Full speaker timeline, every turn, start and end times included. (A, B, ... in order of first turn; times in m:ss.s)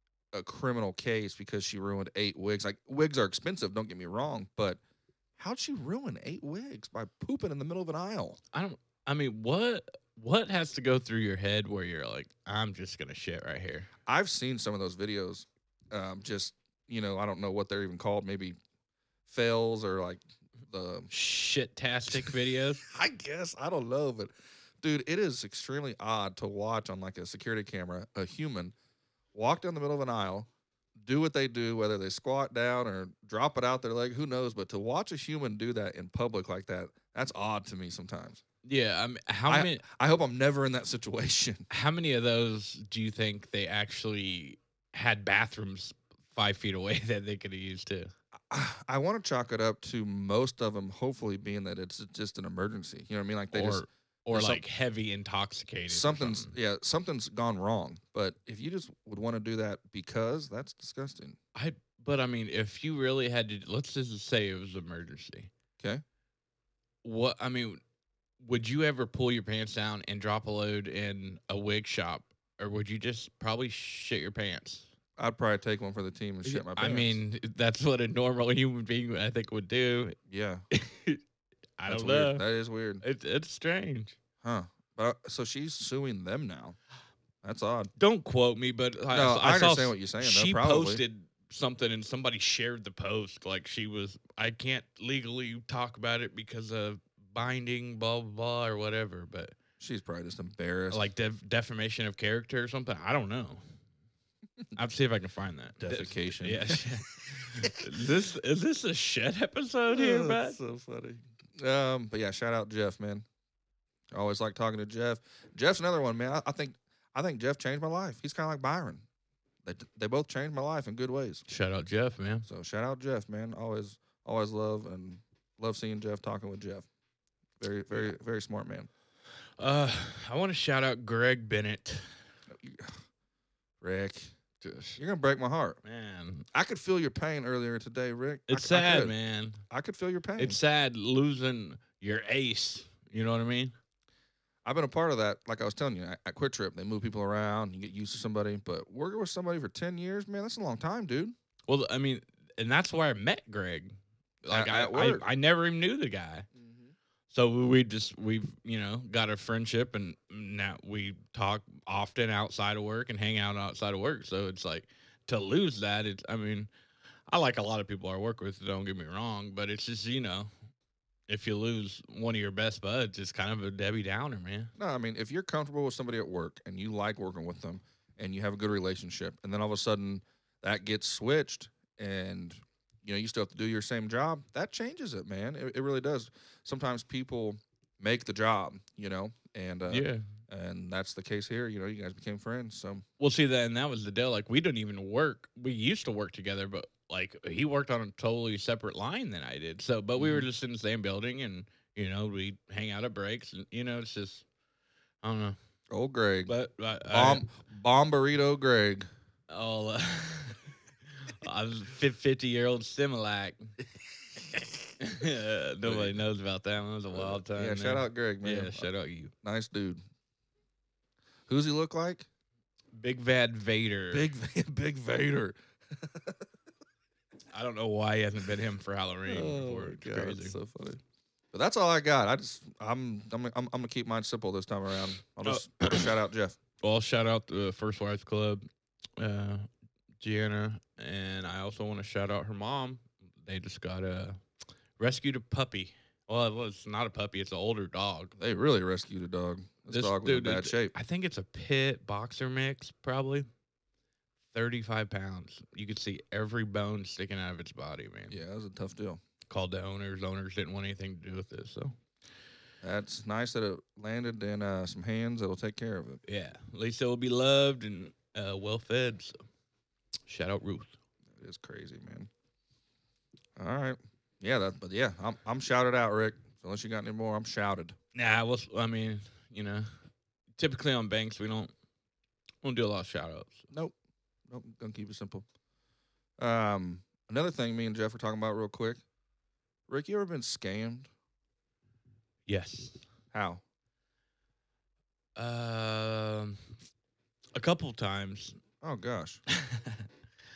0:00.3-0:04.8 A
0:05.4-0:08.4 A
0:08.5-0:13.9 B
0:14.1-0:18.6 A
0:19.3-0:21.1 A
0:21.1-0:22.8 B
0:22.8-0:24.3 A
0:24.8-0:28.7 A
0:29.3-0:30.5 A
0:31.0-0:38.4 A
0:38.6-0:39.8 B
0:39.5-0:41.7 A
0:41.7-0:48.1 B
0:48.5-0:54.6 A
0:53.5-0:56.6 B
0:55.9-1:01.4 A
1:01.6-1:05.5 B
1:07.0-1:07.8 B
1:08.4-1:14.9 B
1:15.2-1:17.2 A
1:16.4-1:20.2 B
1:20.3-1:20.6 A
1:20.7-1:21.2 B
1:21.8-1:22.4 B
1:21.9-1:23.0 A
1:23.0-1:24.2 B
1:24.4-1:26.8 A
1:27.4-1:27.9 A
1:28.0-1:39.5 B
1:29.1-1:31.0 A
1:39.8-1:41.0 A
1:40.9-1:43.6 B
1:44.8-1:50.6 B
1:45.8-1:46.9 A
1:49.9-1:53.3 A
1:54.1-1:59.0 A
1:59.6-2:01.4 A
2:01.5-2:02.5 B
2:02.5-2:06.9 A
2:07.6-2:08.9 A
2:09.6-2:12.1 B
2:12.5-2:13.0 A
2:13.8-2:14.3 A
2:14.6-2:15.0 B
2:15.0-2:15.8 A
2:15.8-2:16.5 B
2:16.5-2:19.1 A
2:18.5-2:19.6 B
2:19.7-2:20.6 A
2:20.4-2:23.7 B
2:24.6-2:31.3 A
2:31.7-2:36.5 B
2:34.5-2:35.2 A
2:36.6-2:36.9 A
2:37.3-2:46.7 B
2:47.3-2:50.5 B
2:51.3-2:54.7 B
2:54.8-3:13.0 A
3:09.9-3:10.3 B
3:13.2-3:24.4 B
3:20.2-3:20.5 A
3:25.2-3:25.6 B
3:25.9-3:26.5 A
3:26.5-3:27.5 B
3:27.1-3:29.1 A
3:29.5-3:33.8 B
3:34.4-3:34.8 A
3:35.0-3:39.3 B
3:35.8-3:36.2 A
3:37.1-3:38.9 A
3:39.4-3:40.0 A
3:41.5-3:42.3 A
3:43.0-3:44.3 B
3:44.1-3:46.4 A
3:47.5-3:50.6 B
3:49.3-3:51.0 A
3:51.5-3:56.6 A
3:55.4-3:56.1 B
3:56.8-3:58.6 B
3:59.2-3:59.7 B
4:00.2-4:04.4 B
4:05.0-4:08.4 B
4:08.4-4:10.9 A
4:09.9-4:13.5 B
4:14.5-4:18.4 B
4:18.3-4:19.2 A
4:19.5-4:22.0 B
4:22.8-4:26.2 A
4:26.3-4:29.4 B
4:30.3-4:30.9 B
4:31.4-4:32.3 A
4:33.6-4:38.0 A
4:38.2-4:39.9 B
4:40.6-4:41.7 B
4:42.6-4:43.7 B
4:44.5-4:45.4 A
4:46.4-4:49.0 A
4:49.9-4:51.1 A
4:52.5-4:53.0 B
4:53.3-4:53.6 A
4:55.4-4:56.7 B
4:57.6-4:58.6 B
4:58.8-4:59.4 A
4:59.5-5:00.0 B